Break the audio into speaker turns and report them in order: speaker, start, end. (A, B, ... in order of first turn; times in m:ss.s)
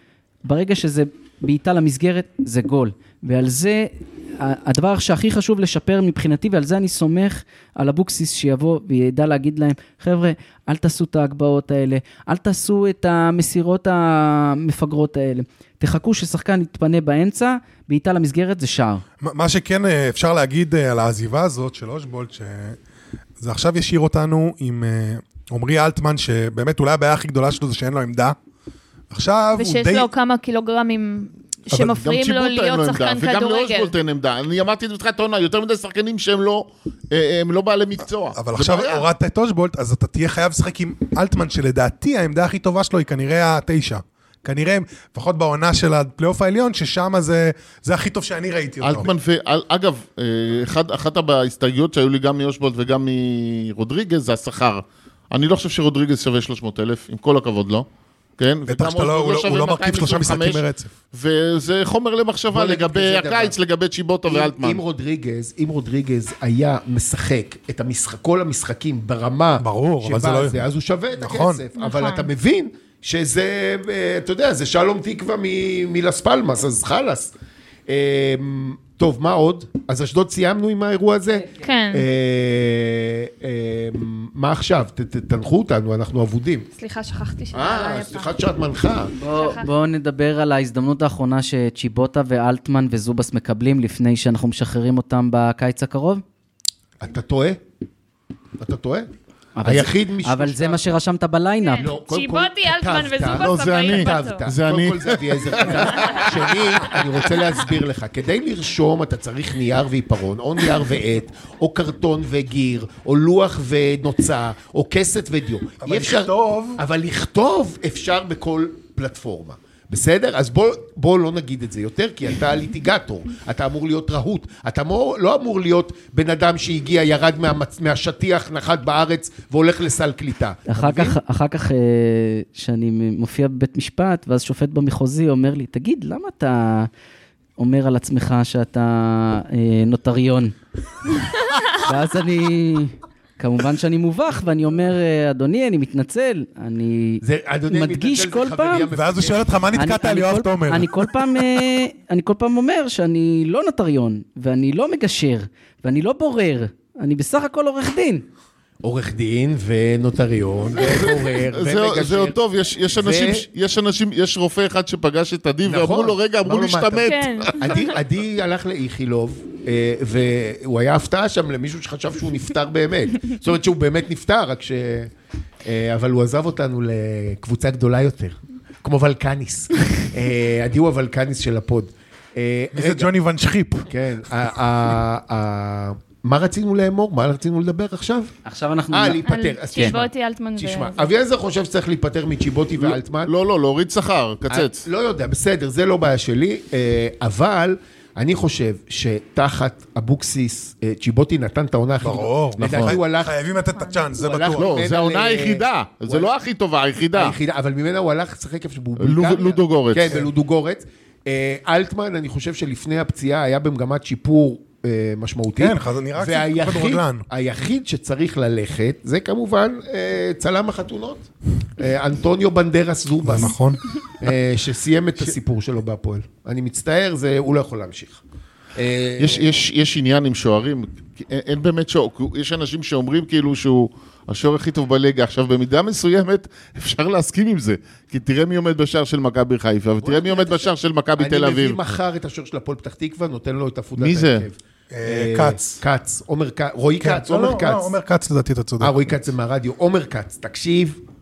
0:00.4-0:19.0 A
0:19.2-0:22.8 B
0:23.4-0:28.4 B
0:29.1-0:30.1 B
0:29.5-0:33.9 C
0:31.8-0:39.1 D
0:38.3-0:49.1 B
0:48.8-0:57.8 D
0:58.4-1:04.8 D
0:58.7-1:00.9 B
1:02.5-1:03.6 E
1:04.3-1:17.3 E
1:09.6-1:10.6 B
1:11.2-1:11.6 B
1:11.8-1:12.3 C
1:17.9-1:26.7 E
1:21.6-1:22.0 C
1:26.8-1:28.3 C
1:27.5-1:29.1 E
1:29.2-1:36.2 A
1:29.3-1:29.7 C
1:37.0-1:37.6 E
1:38.6-1:39.1 E
1:39.6-1:41.9 A
1:39.6-1:40.9 E
1:41.6-1:44.4 C
1:41.8-2:11.2 E
1:43.3-1:46.6 D
1:55.8-1:56.8 B
2:10.7-2:16.9 A
2:17.6-2:20.5 A
2:21.8-2:28.9 A
2:27.2-2:29.6 E
2:28.9-2:31.6 B
2:29.7-2:38.2 A
2:38.8-2:42.4 E
2:40.8-2:47.5 D
2:42.9-2:43.4 E
2:45.6-2:55.1 E
2:47.0-2:47.9 C
2:55.6-3:03.1 E
3:02.7-3:03.9 B
3:03.9-3:08.3 E
3:08.4-3:10.0 A
3:08.9-3:13.3 E
3:09.2-3:11.1 C
3:12.8-3:14.8 D
3:14.5-3:23.4 E
3:22.0-3:24.8 B
3:22.6-3:23.0 D
3:23.7-3:24.0 C
3:24.2-3:26.3 E
3:24.6-3:27.4 D
3:27.1-3:43.6 E
3:29.0-3:30.2 D
3:35.6-3:37.2 B
3:43.2-3:43.8 B
3:44.2-3:48.2 E
3:48.7-3:49.5 E
3:49.2-4:01.8 D
4:00.0-4:07.9 E
4:04.0-4:04.4 D
4:04.9-4:05.8 B
4:07.0-4:09.0 B
4:08.8-4:11.0 E